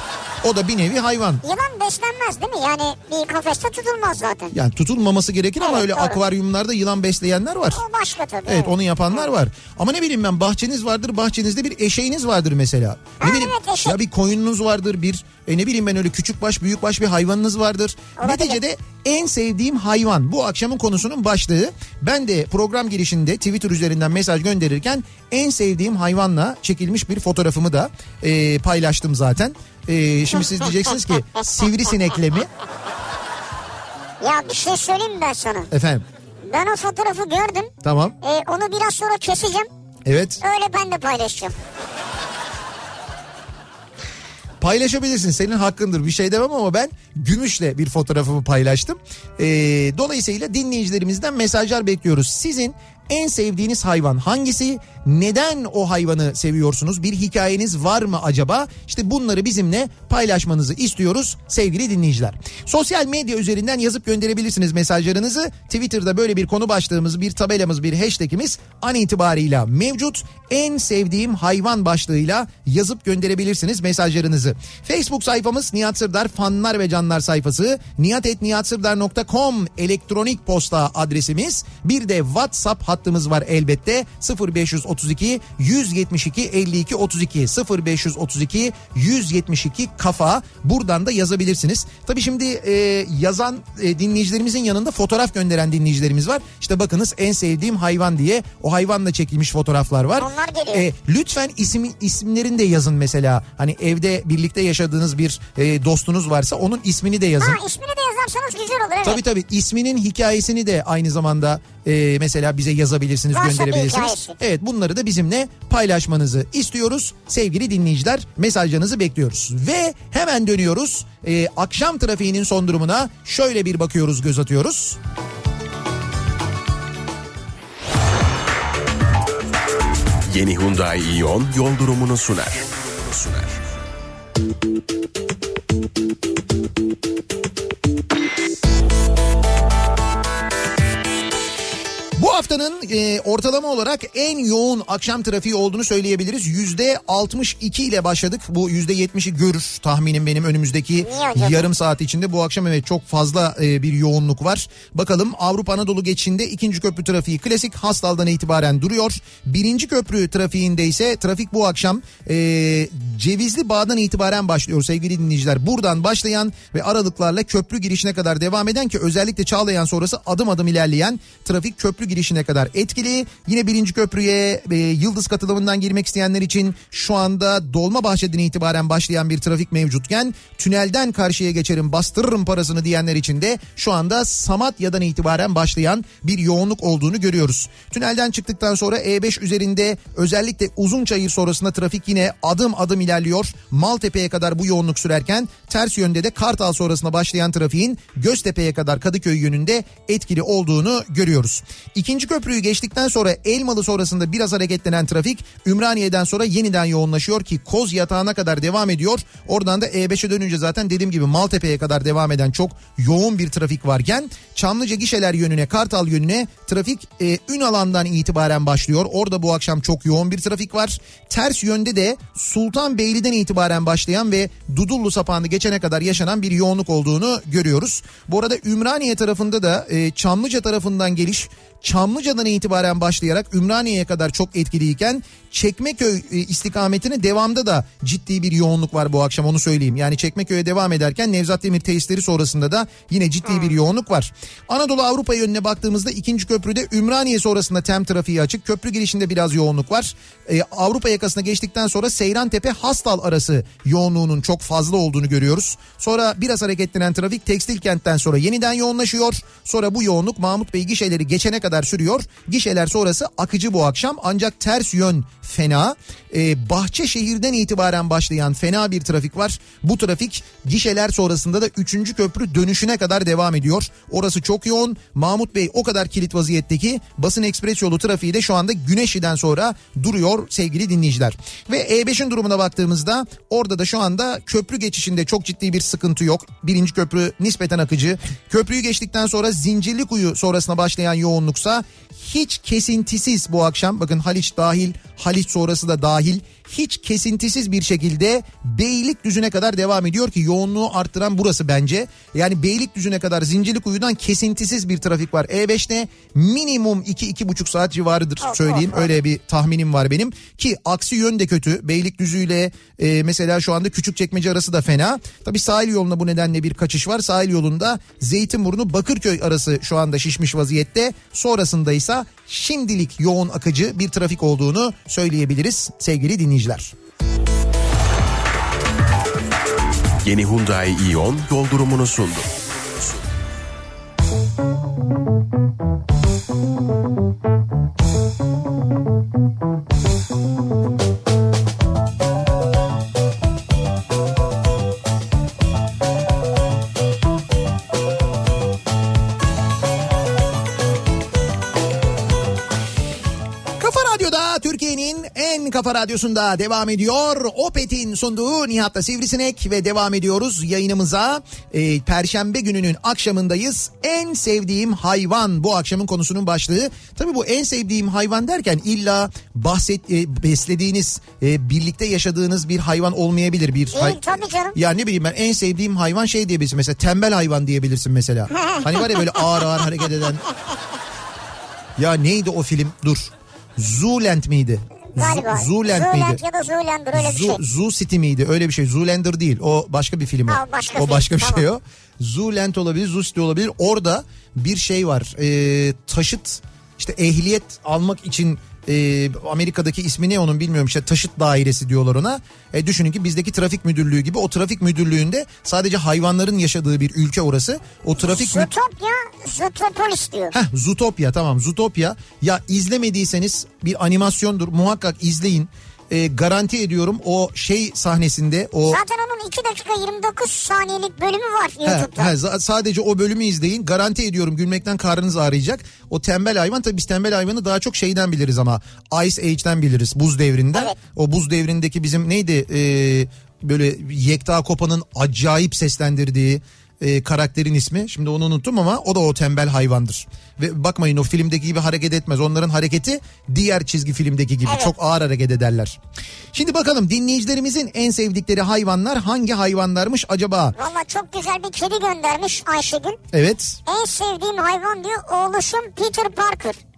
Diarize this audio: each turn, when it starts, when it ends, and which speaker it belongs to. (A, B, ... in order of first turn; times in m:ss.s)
0:00.4-0:01.4 A
0:01.4-0:04.5 B
0:04.5-0:07.8 A
0:05.6-0:06.2 B
0:07.7-0:09.3 B
0:08.4-0:32.5 A
0:13.2-0:14.0 B
0:18.2-0:18.6 B
0:34.2-0:35.7 B
0:35.7-0:36.0 A
0:36.4-0:39.7 B
0:37.8-0:38.2 A
0:40.0-0:40.4 A
0:40.4-0:41.6 B
0:44.6-1:47.6 A
1:40.1-1:40.9 B
1:47.4-1:49.2 B
1:49.0-2:05.0 A
1:53.3-1:54.4 B
2:10.3-2:13.6 C
2:22.2-5:26.9 A
2:31.0-2:31.7 B
4:03.4-4:03.7 B
5:08.4-5:09.1 B
5:30.2-5:33.2 C
5:53.8-6:20.4 A
6:13.9-6:14.8 B
6:18.5-6:19.8 B
6:22.0-6:26.4 A
6:25.1-6:27.6 B
6:27.1-6:48.7 A
6:30.5-6:31.6 B
6:48.2-6:50.5 B
6:50.5-6:59.0 A
6:58.9-7:02.3 B
7:01.8-7:26.0 A
7:24.6-7:24.9 B
7:26.5-7:30.7 A
7:30.8-7:33.2 B
7:33.3-7:33.8 A
7:33.8-7:36.8 B